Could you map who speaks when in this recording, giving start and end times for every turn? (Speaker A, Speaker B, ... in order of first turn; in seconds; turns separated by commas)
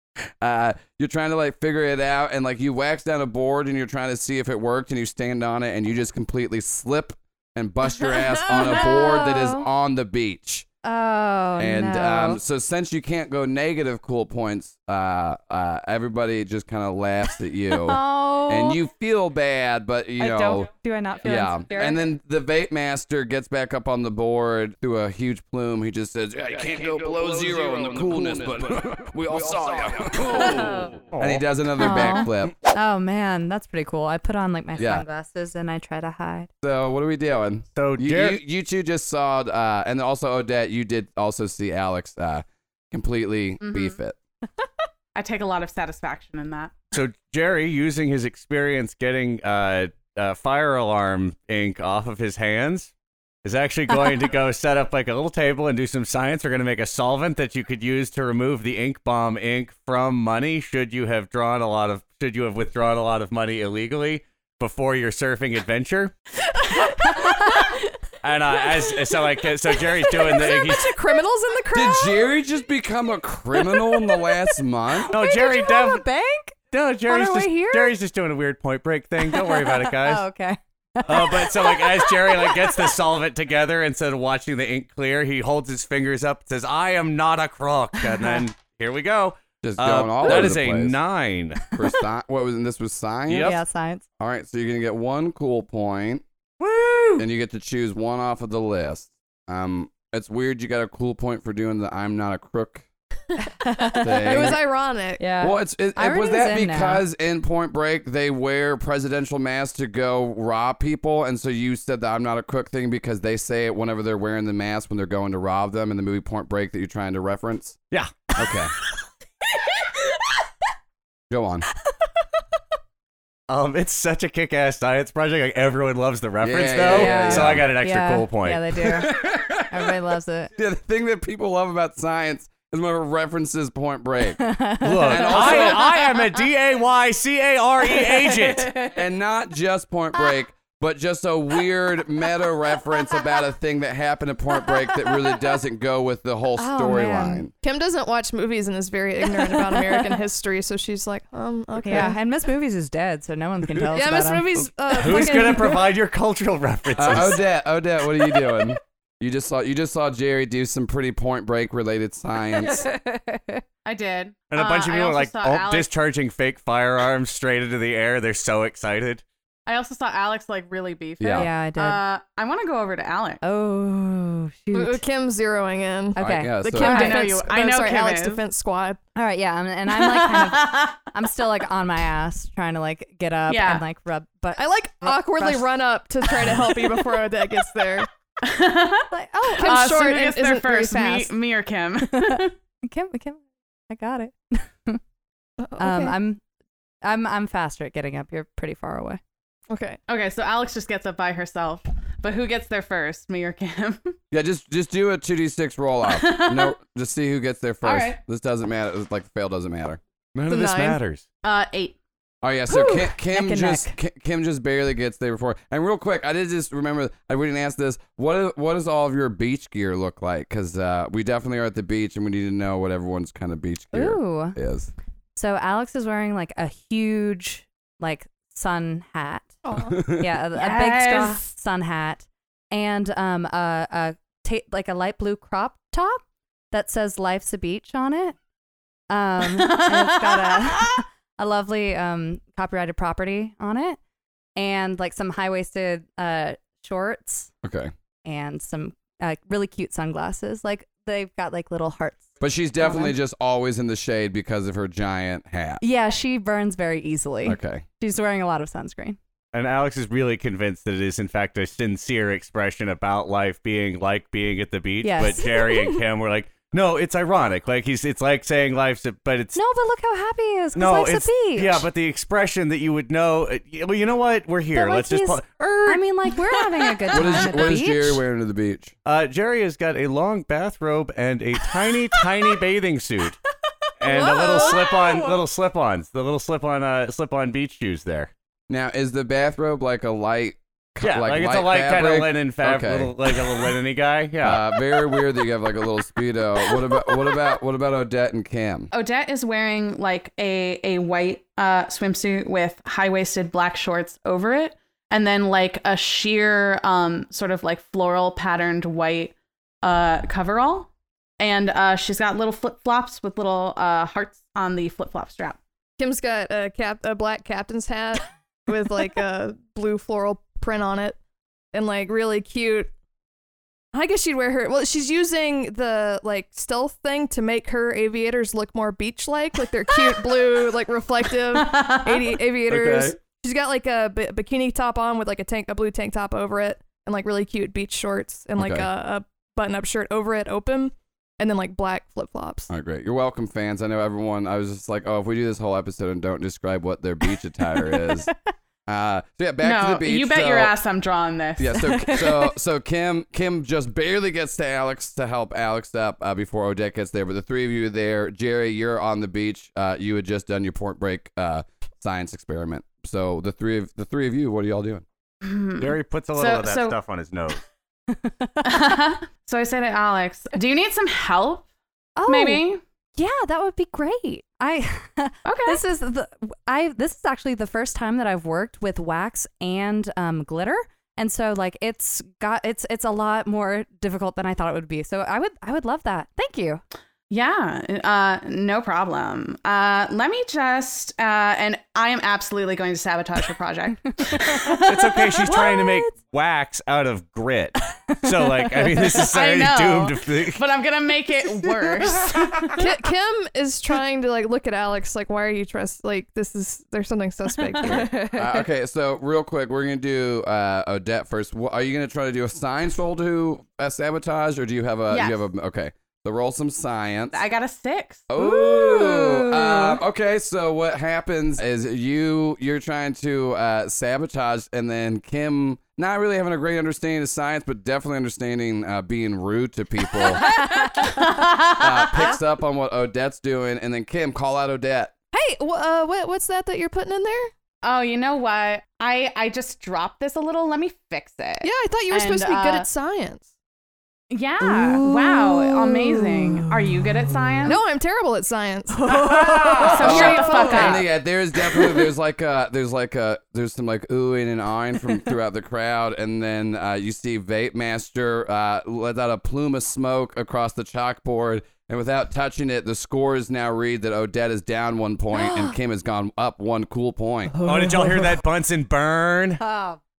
Speaker A: 0.4-10.7, Speaker B: 8.5-9.6, Speaker B: 10.8-12.4, Speaker A: 11.6-20.7, Speaker B: 17.7-18.8, Speaker B: 20.2-22.0, Speaker A: 21.2-32.5, Speaker B: 30.4-30.9, Speaker C: 31.1-31.4, Speaker B: 31.8-36.5, Speaker A: 34.8-35.0, Speaker A: 36.6-44.2, Speaker C: 37.8-38.4, Speaker D: 43.6-44.0, Speaker D: 45.1-46.7, Speaker C: 46.9-52.9, Speaker C: 53.4-66.1, Speaker E: 66.6-67.7, Speaker C: 68.2-71.0, Speaker E: 70.1-72.2, Speaker A: 71.7-75.1, Speaker C: 75.1-76.0, Speaker B: 75.1-76.5, Speaker C: 76.7-80.2, Speaker B: 77.1-78.0, Speaker B: 79.3-82.9, Speaker C: 81.0-91.7, Speaker B: 88.1-88.4, Speaker A: 89.6-91.0, Speaker A: 91.7-93.6, Speaker C: 93.3-93.6, Speaker B: 93.4-94.0, Speaker A: 94.2-96.2, Speaker C: 96.6-97.2, Speaker A: 97.2-102.8, Speaker B: 103.6-104.6, Speaker E: 103.9-105.2, Speaker A: 104.0-104.6, Speaker B: 105.2-107.0, Speaker A: 105.4-117.8, Speaker C: 117.9-118.3, Speaker A: 118.3-118.7, Speaker A: 121.3-121.7, Speaker C: 123.5-129.0, Speaker A: 126.4-127.7, Speaker B: 126.8-130.5, Speaker A: 128.8-129.9, Speaker A: 130.6-134.4, Speaker B: 134.4-136.2, Speaker C: 134.8-138.8, Speaker A: 135.0-135.9, Speaker B: 138.0-138.9, Speaker A: 138.9-147.5, Speaker B: 146.6-147.4, Speaker E: 147.6-152.2, Speaker B: 149.2-150.2, Speaker B: 151.8-155.3, Speaker E: 153.9-155.9, Speaker C: 155.0-157.4, Speaker A: 157.0-162.9, Speaker B: 162.6-163.6, Speaker D: 163.8-165.9, Speaker C: 164.5-169.2, Speaker D: 169.7-173.4, Speaker A: 171.2-171.5, Speaker B: 171.3-172.0, Speaker B: 173.4-175.0, Speaker E: 174.7-179.0, Speaker B: 176.1-177.3, Speaker A: 176.2-177.0, Speaker D: 176.7-178.4, Speaker B: 179.2-185.7, Speaker D: 179.9-181.1, Speaker D: 183.5-183.8, Speaker E: 184.6-188.1, Speaker B: 186.4-186.7, Speaker D: 188.4-192.5, Speaker B: 189.1-189.9, Speaker E: 189.5-191.3, Speaker B: 192.1-195.0, Speaker E: 195.6-196.2, Speaker B: 195.8-196.4, Speaker B: 197.0-199.2, Speaker E: 199.7-200.0, Speaker D: 200.1-204.1, Speaker A: 204.3-210.0, Speaker D: 206.1-206.7, Speaker D: 207.8-208.2, Speaker C: 210.3-211.2, Speaker E: 210.5-211.0, Speaker D: 211.4-212.0, Speaker A: 212.4-224.9, Speaker B: 212.7-213.9, Speaker B: 223.9-224.6, Speaker B: 225.3-238.3, Speaker A: 229.8-230.3, Speaker D: 230.5-231.5, Speaker B: 239.1-244.0, Speaker D: 239.5-241.0, Speaker B: 244.6-247.5, Speaker A: 247.6-247.9, Speaker B: 248.2-253.1, Speaker A: 252.4-255.8, Speaker B: 255.8-259.2, Speaker A: 257.4-257.8, Speaker C: 259.5-269.6, Speaker B: 265.0-265.8, Speaker E: 265.6-265.9, Speaker B: 269.5-271.9, Speaker C: 270.7-276.5, Speaker B: 274.7-278.2, Speaker A: 277.1-278.9, Speaker C: 279.1-283.4, Speaker C: 284.0-288.3, Speaker E: 284.1-285.1, Speaker B: 284.1-284.9, Speaker A: 288.7-293.7, Speaker C: 291.0-295.0, Speaker A: 294.4-298.9, Speaker D: 298.9-315.6, Speaker E: 316.0-321.2, Speaker E: 321.7-322.9, Speaker E: 323.9-342.7, Speaker D: 331.5-332.3, Speaker A: 332.7-333.2, Speaker A: 338.6-338.9, Speaker A: 342.7-348.3, Speaker A: 348.9-350.7, Speaker D: 349.6-352.1, Speaker A: 351.6-365.0, Speaker D: 365.4-366.9, Speaker C: 365.8-367.6, Speaker B: 368.1-368.9, Speaker D: 368.6-371.7, Speaker B: 372.1-372.6, Speaker D: 372.2-372.8, Speaker B: 373.1-386.8, Speaker D: 375.4-375.8, Speaker D: 387.3-395.6, Speaker B: 394.3-394.8, Speaker C: 394.8-400.6, Speaker B: 395.4-396.1, Speaker B: 398.6-399.0, Speaker D: 399.1-402.9, Speaker E: 402.7-408.5, Speaker A: 407.9-417.4, Speaker D: 415.1-415.4, Speaker D: 417.3-418.2, Speaker A: 418.3-430.5, Speaker B: 418.4-420.0, Speaker B: 430.8-431.0, Speaker D: 430.9-432.0, Speaker A: 431.8-435.1, Speaker E: 435.3-437.5, Speaker D: 437.8-442.9, Speaker E: 441.6-443.5, Speaker D: 444.3-447.8, Speaker E: 444.7-446.7, Speaker E: 447.6-451.1, Speaker D: 449.1-451.1, Speaker A: 450.0-467.6, Speaker B: 465.3-465.8, Speaker C: 467.6-469.6, Speaker B: 469.6-470.0